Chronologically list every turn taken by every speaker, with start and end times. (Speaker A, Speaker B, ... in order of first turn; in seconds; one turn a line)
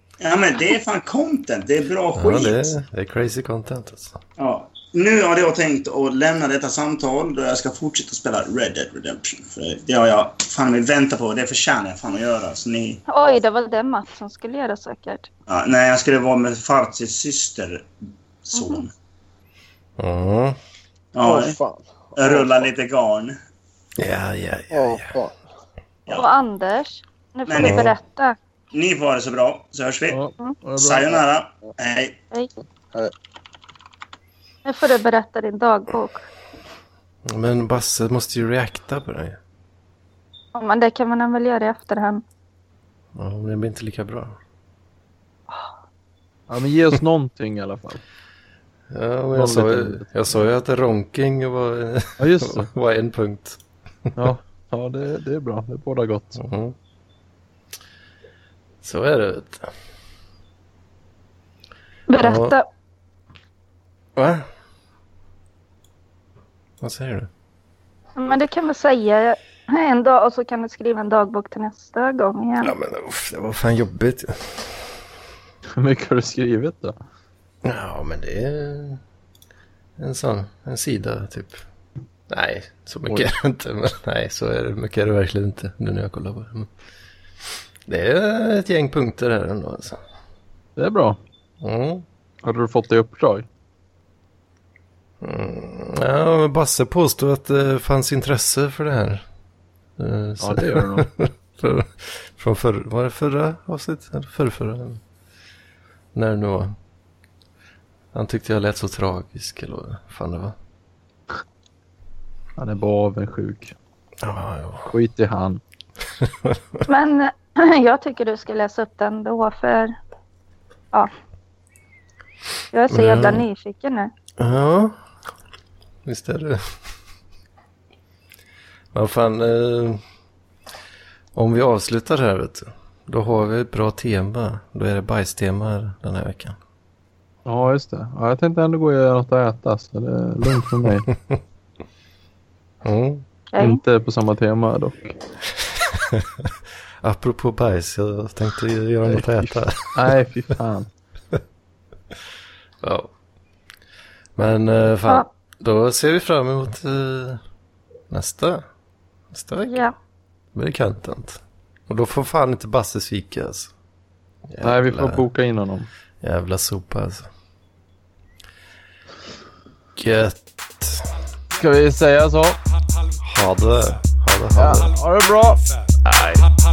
Speaker A: 0.2-2.8
Speaker B: 2.2-4.2
Speaker A: 4.4-13.1
Speaker C: 13.1-15.3
Speaker A: 15.5-17.9
Speaker A: 18.5-18.9
Speaker C: 18.6-18.8
Speaker B: 20.0-20.6
Speaker A: 21.1-21.6
Speaker D: 21.2-22.7
Speaker A: 22.2-23.4
Speaker B: 24.0-25.1
Speaker D: 24.7-25.3
Speaker C: 26.1-28.4
Speaker A: 27.5-27.9
Speaker B: 27.6-27.9
Speaker A: 28.7-30.2
Speaker E: 30.1-31.2
Speaker A: 30.8-32.2
Speaker C: 34.6-36.3
Speaker B: 37.3-39.4
Speaker C: 40.5-42.2
Speaker B: 43.2-44.4
Speaker E: 46.5-48.0
Speaker B: 48.9-53.6
Speaker E: 49.3-50.1
Speaker E: 52.2-52.7
Speaker E: 54.2-56.4
Speaker B: 56.4-56.8
Speaker B: 58.8-59.7
Speaker C: 62.1-62.7
Speaker B: 62.2-62.5
Speaker B: 64.2-64.5
Speaker B: 66.8-67.3
Speaker C: 68.2-72.7
Speaker B: 72.6-74.7
Speaker E: 75.8-77.0
Speaker B: 77.6-79.0
Speaker B: 80.0-81.6
Speaker B: 82.3-86.7
Speaker B: 87.9-90.0
Speaker E: 90.8-91.2
Speaker B: 91.6-92.0
Speaker E: 92.4-93.5
Speaker B: 95.2-99.2
Speaker B: 100.0-105.0
Speaker E: 100.4-101.1
Speaker B: 106.2-106.8
Speaker B: 108.1-110.5
Speaker E: 112.6-113.8
Speaker B: 114.2-114.9
Speaker E: 114.9-115.6
Speaker C: 116.9-119.9
Speaker C: 122.7-124.1
Speaker B: 122.9-123.5
Speaker B: 124.4-125.0
Speaker B: 126.0-126.7
Speaker B: 128.9-130.0
Speaker B: 131.3-136.6
Speaker E: 137.5-141.1
Speaker B: 142.8-143.2
Speaker C: 143.5-143.8
Speaker E: 143.6-145.2
Speaker B: 146.0-146.2
Speaker B: 147.0-150.0
Speaker E: 149.1-150.9
Speaker B: 152.8-153.1
Speaker B: 154.4-157.4
Speaker B: 158.1-158.7
Speaker B: 159.3-159.8
Speaker C: 159.7-159.9
Speaker B: 160.6-163.7
Speaker B: 164.5-165.2
Speaker E: 164.6-165.9
Speaker B: 166.2-167.3
Speaker B: 170.0-171.1
Speaker E: 171.6-172.6
Speaker B: 173.2-174.9
Speaker E: 174.6-175.6
Speaker B: 176.0-176.5